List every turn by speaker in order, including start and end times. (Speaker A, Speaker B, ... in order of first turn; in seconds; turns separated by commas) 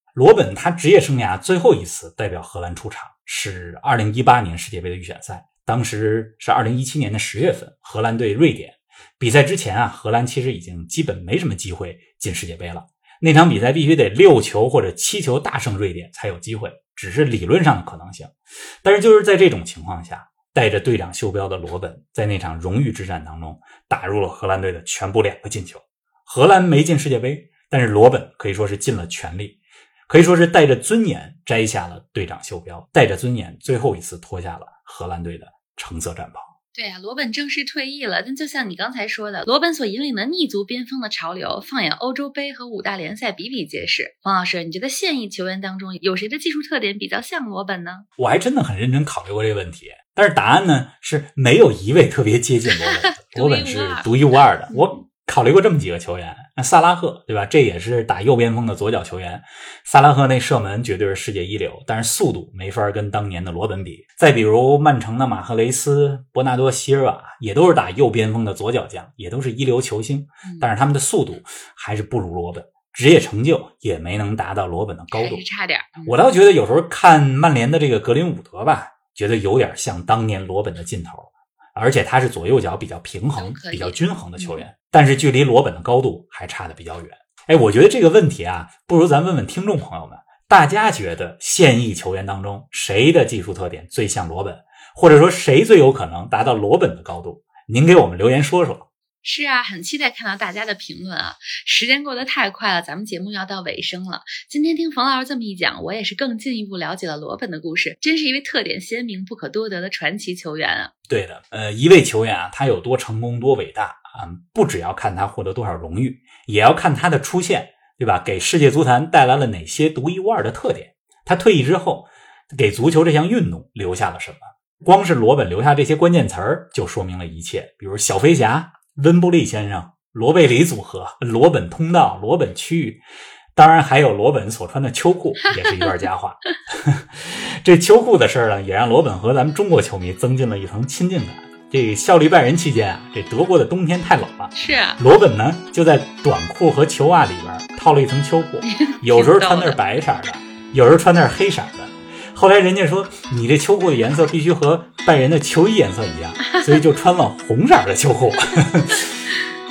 Speaker A: 0.1-36.5, Speaker B: 36.7-48.1, Speaker A: 48.2-75.4, Speaker B: 52.9-54.1, Speaker B: 54.7-55.0, Speaker B: 75.1-76.2, Speaker A: 76.0-98.9, Speaker B: 83.4-84.7, Speaker B: 99.2-110.9, Speaker A: 111.1-133.0, Speaker A: 133.6-159.2, Speaker B: 144.5-145.0, Speaker B: 148.6-149.8